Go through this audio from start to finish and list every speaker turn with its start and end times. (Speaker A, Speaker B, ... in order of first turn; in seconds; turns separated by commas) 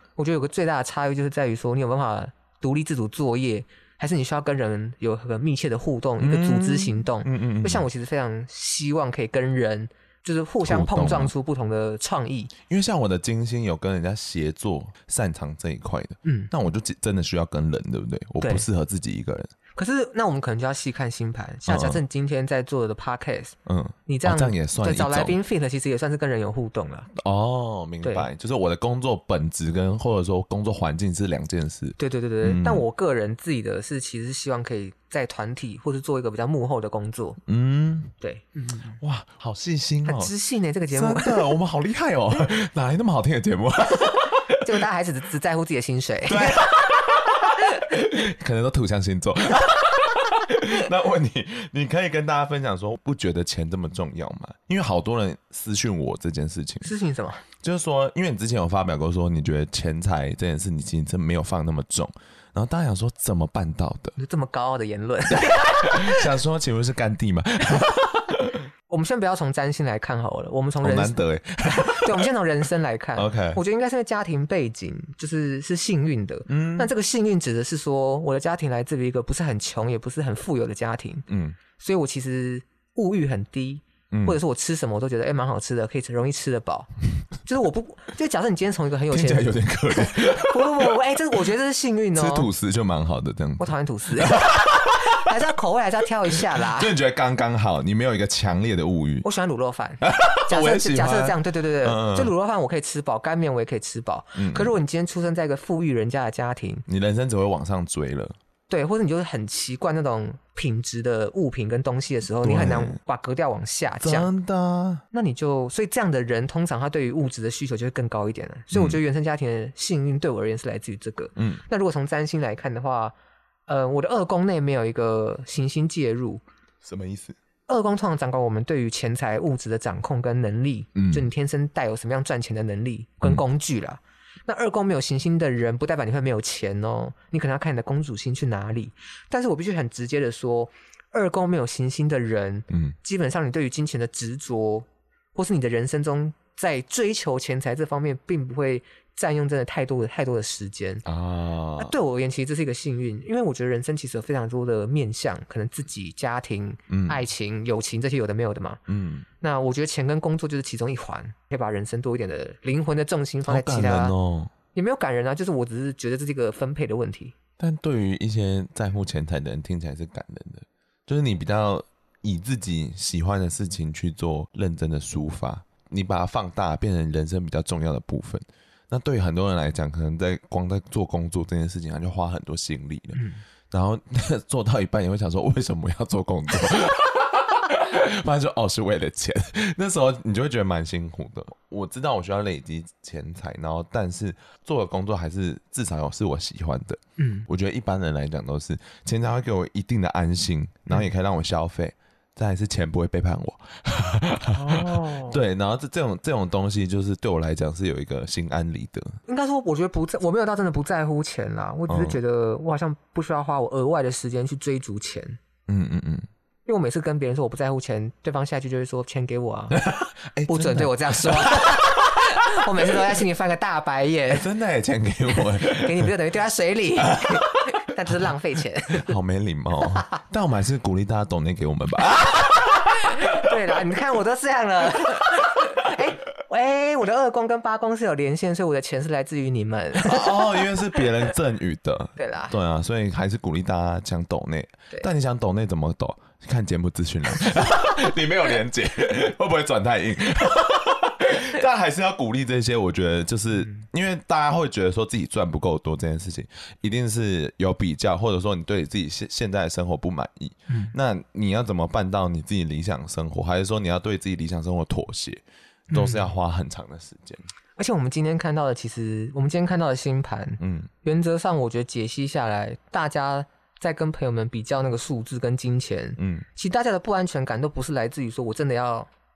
Speaker A: 0.2-12.5, Speaker B: 6.2-7.9, Speaker B: 10.6-11.3, Speaker B: 12.7-19.5, Speaker A: 16.2-16.5, Speaker A: 18.4-18.7, Speaker A: 19.8-23.6, Speaker B: 21.7-22.0, Speaker B: 23.7-25.4, Speaker A: 24.1-27.1, Speaker B: 27.2-32.9, Speaker A: 28.0-28.3, Speaker A: 32.0-37.4, Speaker B: 37.5-38.1, Speaker A: 38.2-39.0, Speaker B: 39.0-40.3, Speaker A: 40.0-41.5, Speaker B: 40.9-44.8, Speaker A: 44.6-46.7, Speaker B: 46.3-56.9, Speaker A: 56.8-57.5, Speaker B: 57.6-64.2, Speaker A: 64.2-66.3, Speaker B: 65.5-68.7, Speaker A: 68.9-81.3, Speaker B: 70.8-72.3, Speaker B: 73.2-73.6, Speaker B: 76.5-76.9, Speaker B: 81.3-81.6, Speaker A: 81.8-86.9, Speaker B: 84.1-84.4, Speaker A: 87.4-92.5, Speaker B: 89.1-91.0, Speaker B: 92.2-95.2, Speaker A: 93.6-96.9, Speaker B: 96.3-99.2, Speaker A: 99.2-106.8, Speaker B: 100.0-102.3, Speaker B: 104.3-104.8, Speaker B: 106.9-108.4, Speaker A: 108.7-114.3, Speaker B: 112.4-113.0, Speaker B: 114.0-115.0, Speaker A: 115.1-123.2, Speaker B: 118.7-119.0, Speaker B: 121.4-121.6, Speaker A: 123.7-126.4, Speaker B: 126.8-127.4, Speaker A: 127.7-151.1, Speaker B: 131.0-131.3, Speaker B: 142.7-143.0, Speaker B: 151.1-151.9, Speaker A: 151.8-158.8, Speaker B: 156.9-157.2, Speaker B: 158.9-159.3, Speaker A: 159.4-164.1, Speaker B: 163.5-164.5, Speaker A: 164.7-167.3, Speaker B: 167.6-209.2, Speaker A: 183.2-183.4, Speaker A: 197.2-197.5, Speaker A: 204.5-205.4, Speaker A: 209.3-215.4, Speaker B: 211.9-212.2, Speaker B: 215.7-216.3, Speaker A: 216.7-219.9, Speaker B: 219.7-221.9, Speaker A: 220.5-224.5, Speaker B: 224.3-226.1, Speaker A: 225.3-229.2, Speaker B: 227.1-227.5, Speaker B: 228.9-233.4, Speaker A: 233.1-240.6, Speaker B: 240.0-267.5, Speaker A: 242.2-242.6, Speaker A: 265.9-266.3, Speaker A: 267.8-279.1, Speaker B: 270.6-270.9, Speaker B: 276.2-276.5